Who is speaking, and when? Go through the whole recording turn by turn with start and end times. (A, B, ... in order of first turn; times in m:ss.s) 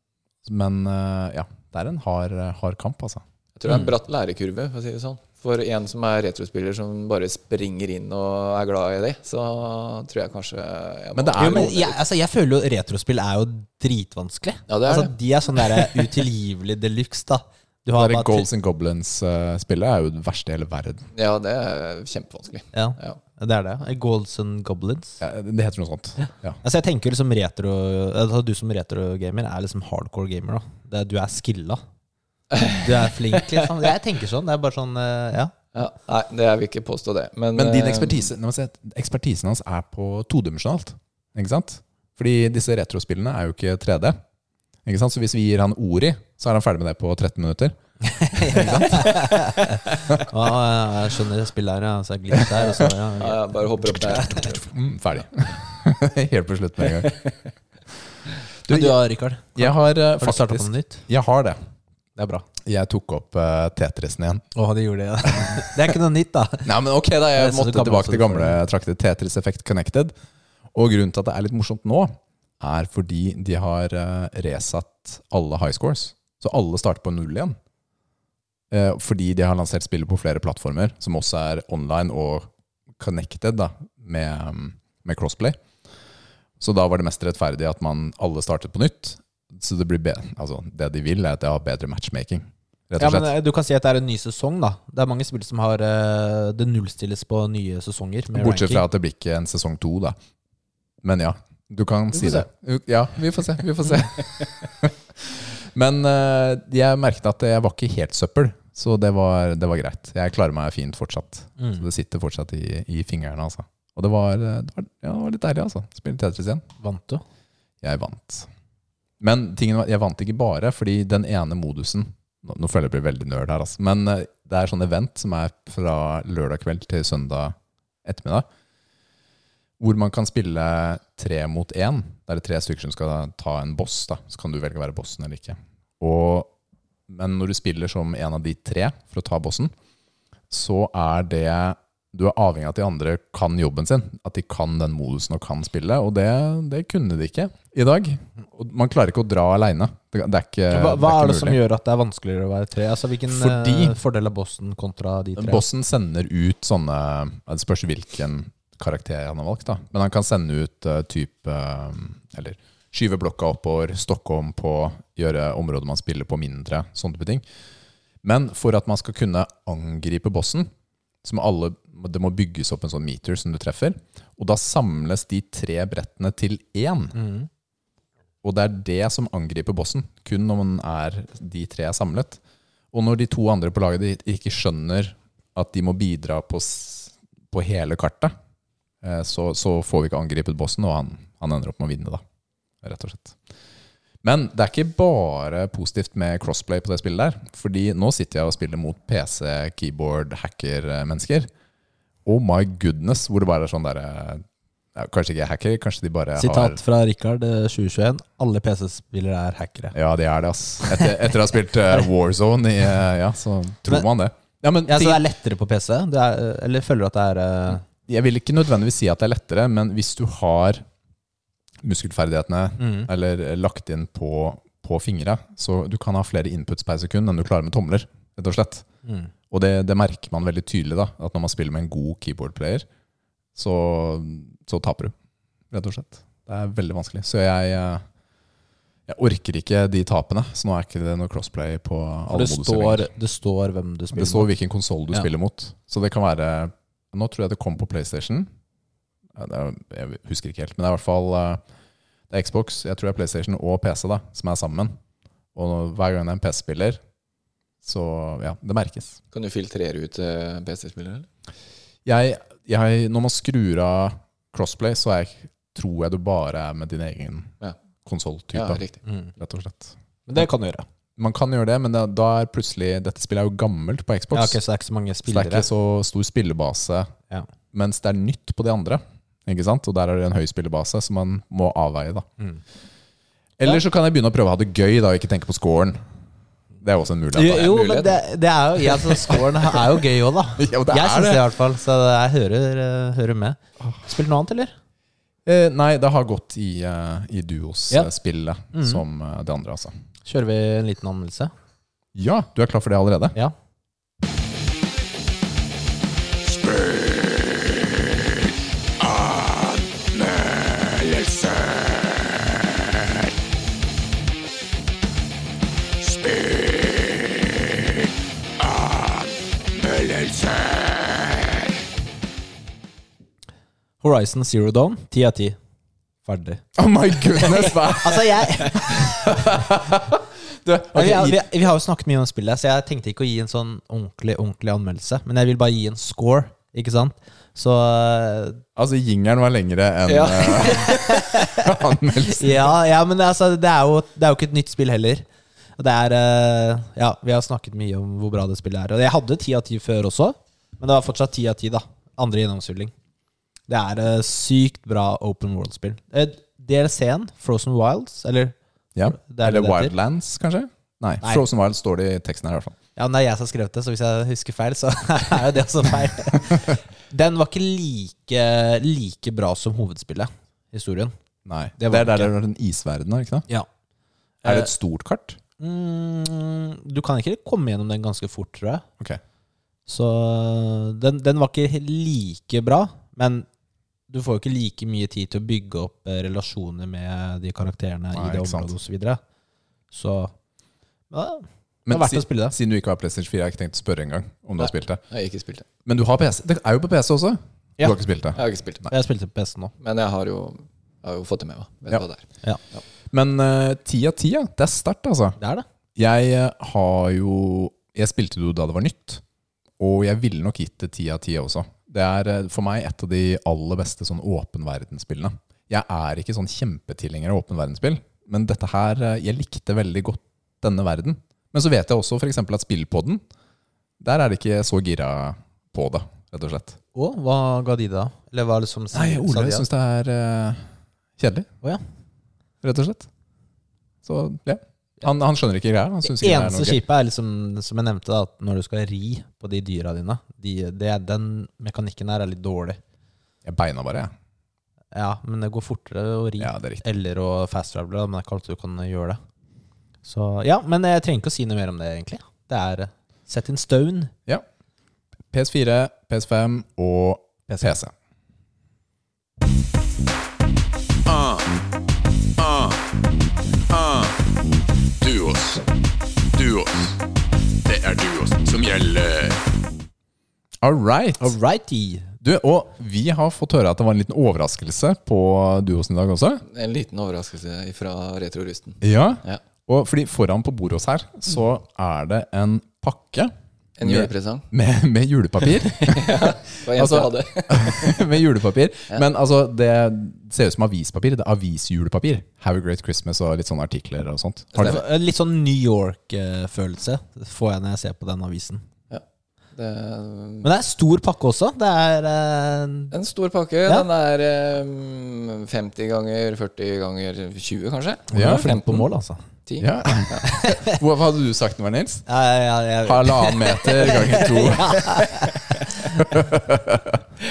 0:00.4-0:03.9 A
0:03.6-0:12.0 B
0:11.2-0:11.8 A
0:11.4-0:18.5 C
0:14.7-0:16.0 B
0:18.0-0:21.1 A
0:21.1-0:23.2 B
0:22.7-0:25.2 C
0:25.2-0:26.6 A
0:26.6-0:31.8 C
0:32.5-0:32.8 B
0:32.8-0:35.5 C
0:35.7-0:38.3 B
0:37.6-0:44.2 A
0:44.8-0:47.8 A
0:48.1-0:54.4 C
0:48.4-0:49.2 A
0:52.8-0:54.7 B
0:54.1-0:57.2 A
0:56.8-0:57.4 B
0:58.7-0:59.0 A
0:58.7-1:01.0 C
0:59.6-1:01.6 A
1:02.2-1:02.5 C
1:02.6-1:04.5 A
1:04.6-1:06.7 C
1:05.3-1:05.6 A
1:06.6-1:10.1 A
1:07.4-1:08.6 C
1:10.7-1:17.6 A
1:18.7-1:25.6 A
1:26.6-1:33.3 A
1:33.0-1:38.8 C
1:38.4-1:40.2 A
1:41.0-1:56.6 A
1:42.1-1:42.5 C
1:51.6-1:51.8 C
1:56.8-1:57.2 C
1:57.8-1:58.5 A
1:59.2-2:08.5 A
2:09.8-2:16.5 A
2:17.1-2:19.7 A
2:20.5-2:31.6 A
2:30.7-2:35.6 C
2:33.3-2:34.0 A
2:35.4-2:47.5 A
2:48.2-2:50.7 A
2:51.2-2:57.2 A
2:57.1-2:57.5 C
2:58.4-3:02.4 A
3:02.9-3:08.4 A
3:09.0-3:12.2 A
3:12.8-3:13.4 A
3:14.2-3:21.5 A
3:22.2-3:26.8 A
3:26.4-3:29.9 C
3:29.9-3:35.2 A
3:34.9-3:37.8 C
3:37.7-3:40.9 A
3:41.8-3:48.8 A
3:42.8-3:43.1 C
3:49.0-3:49.3 C
3:49.5-3:52.9 A
3:53.6-3:55.2 A
3:55.7-3:58.0 A
3:59.1-4:03.1 A
4:02.3-4:04.5 C
4:04.1-4:08.5 A
4:09.4-4:11.6 A
4:12.3-4:15.0 A
4:15.5-4:17.0 A
4:17.8-4:19.2 A
4:19.3-4:21.3 B
4:22.0-4:27.5 A
4:28.1-4:28.8 A
4:28.5-4:29.0 B
4:29.1-4:29.3 C
4:29.4-4:30.5 A
4:30.3-4:30.9 C
4:31.2-4:34.6 A
4:34.3-4:35.7 C
4:35.3-4:37.1 A
4:37.7-4:42.3 A
4:43.6-4:46.0 A
4:46.8-4:47.8 A
4:47.3-4:54.7 C
4:47.5-4:48.2 B
4:50.6-4:51.4 A
4:55.4-4:59.9 A
4:58.7-4:59.0 C
5:00.3-5:01.5 C
5:02.2-5:03.4 A
5:06.6-5:07.7 D
5:09.0-5:12.2 D
5:16.4-5:17.1 D
5:24.0-5:25.6 C
5:26.2-5:26.6 C
5:26.8-5:31.4 A
5:28.0-5:29.4 C
5:30.9-5:38.6 C
5:38.8-5:42.7 A
5:40.1-5:40.9 B
5:40.6-5:41.7 C
5:42.3-5:45.3 C
5:45.8-5:52.9 C
5:53.7-5:59.9 C
5:59.0-6:02.8 A
6:03.0-6:11.1 C
6:11.4-6:13.5 A
6:11.8-6:12.3 C
6:14.4-6:15.4 A
6:15.6-6:18.8 C
6:19.9-6:23.5 C
6:24.1-6:29.2 C
6:28.1-6:28.7 A
6:29.9-6:30.3 C
6:31.1-6:32.6 C
6:31.9-6:35.0 A
6:35.1-6:35.7 B
6:35.9-6:38.4 A
6:38.4-6:38.9 B
6:38.9-6:39.7 C
6:39.8-6:42.8 B
6:43.1-6:45.4 A
6:45.4-6:45.6 C
6:46.0-6:49.2 A
6:49.8-7:03.2 A
7:04.0-7:06.8 A
7:07.0-7:09.6 C
7:08.9-7:11.5 A
7:12.6-7:13.1 A
7:14.0-7:16.8 A
7:16.0-7:22.8 C
7:23.4-7:24.1 A
7:24.9-7:29.2 C
7:26.4-7:26.8 A
7:30.0-7:34.1 C
7:35.3-7:37.9 A
7:41.1-7:41.5 D
7:42.4-7:42.8 D
7:43.7-7:44.1 D
7:45.0-7:45.7 D
7:46.4-7:47.0 D
7:47.6-7:49.4 D
7:50.6-7:51.4 A
7:51.2-7:52.1 C
7:52.2-7:56.4 A
7:56.5-7:59.4 B
7:58.8-8:03.3 A
8:03.8-8:04.5 B
8:03.8-8:14.8 A
8:05.6-8:08.0 B
8:14.6-8:14.8 B
8:14.6-8:18.6 C
8:19.6-8:20.5 B
8:20.4-8:22.9 C
8:22.9-8:28.9 B
8:28.1-8:29.2 C
8:28.1-8:28.5 A
8:29.5-8:30.2 B
8:29.6-8:32.1 A
8:30.3-8:30.8 C
8:32.1-8:36.0 C
8:32.8-8:35.3 A
8:36.0-8:37.0 A